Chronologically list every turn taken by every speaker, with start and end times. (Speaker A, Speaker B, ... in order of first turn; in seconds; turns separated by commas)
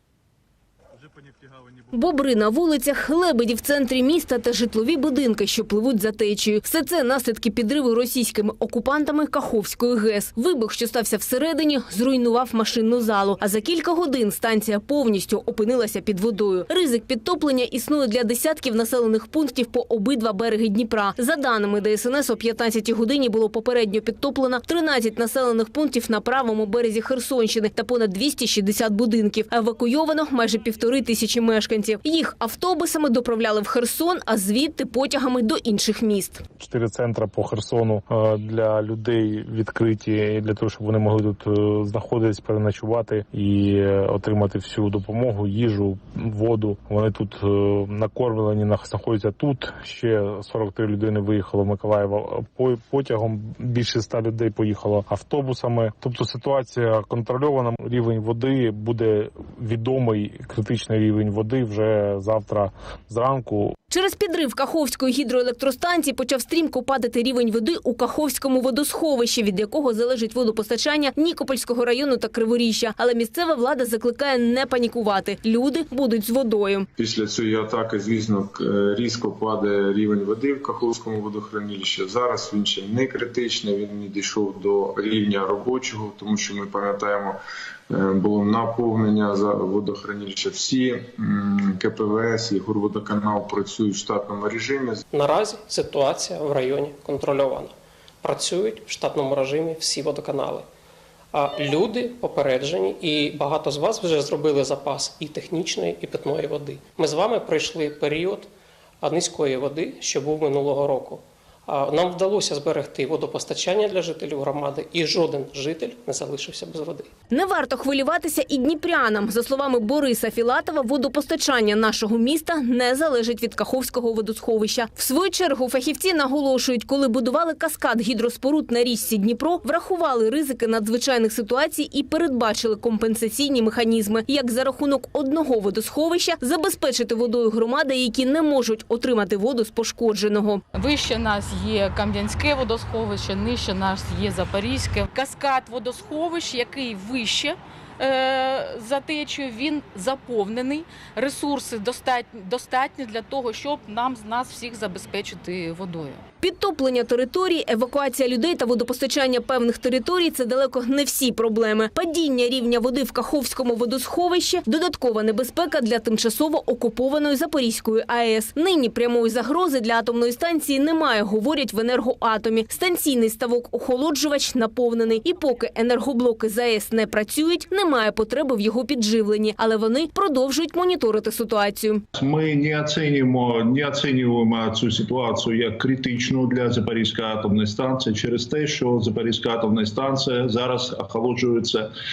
Speaker A: 1.9-36.4, Speaker B: 36.6-63.8, Speaker A: 63.9-76.8, Speaker C: 77.0-87.4, Speaker C: 87.9-95.0, Speaker D: 95.1-100.7, Speaker D: 101.3-108.5, Speaker D: 109.0-117.1, Speaker A: 117.3-140.6, Speaker E: 140.7-156.2, Speaker A: 156.4-182.0, Speaker F: 182.1-191.9